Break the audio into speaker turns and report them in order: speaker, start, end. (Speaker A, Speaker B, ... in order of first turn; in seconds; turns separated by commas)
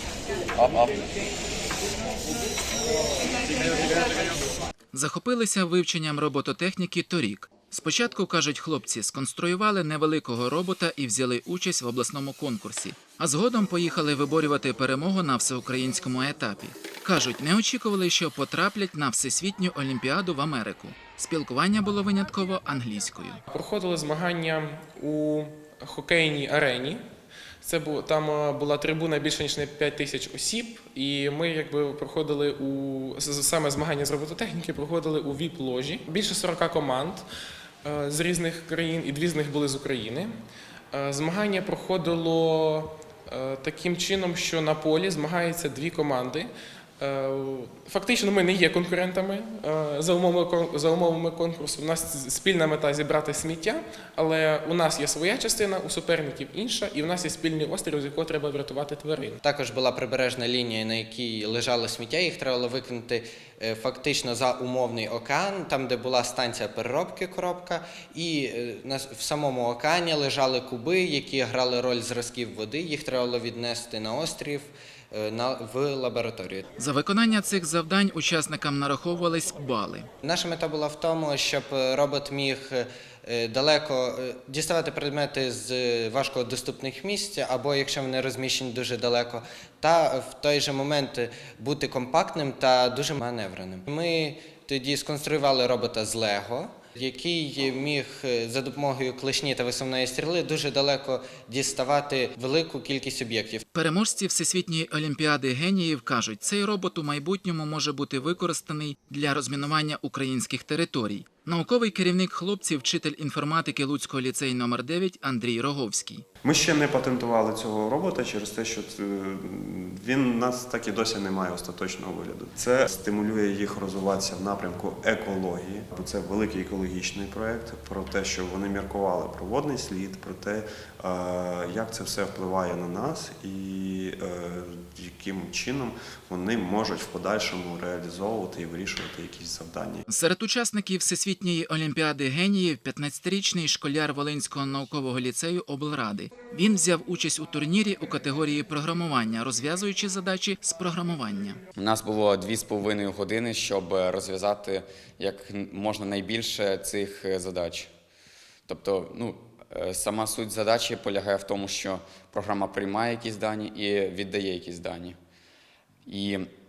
Speaker A: 0.6-1.0, Speaker B: 4.9-23.4, Speaker C: 23.5-27.0, Speaker C: 27.6-37.2, Speaker C: 37.8-40.3, Speaker C: 40.9-59.4, Speaker D: 59.4-76.7, Speaker B: 76.8-80.1, Speaker D: 80.2-103.6, Speaker B: 103.7-116.2, Speaker E: 116.4-140.0, Speaker B: 140.1-151.6, Speaker A: 151.7-157.9, Speaker A: 158.7-165.2, Speaker A: 166.1-166.4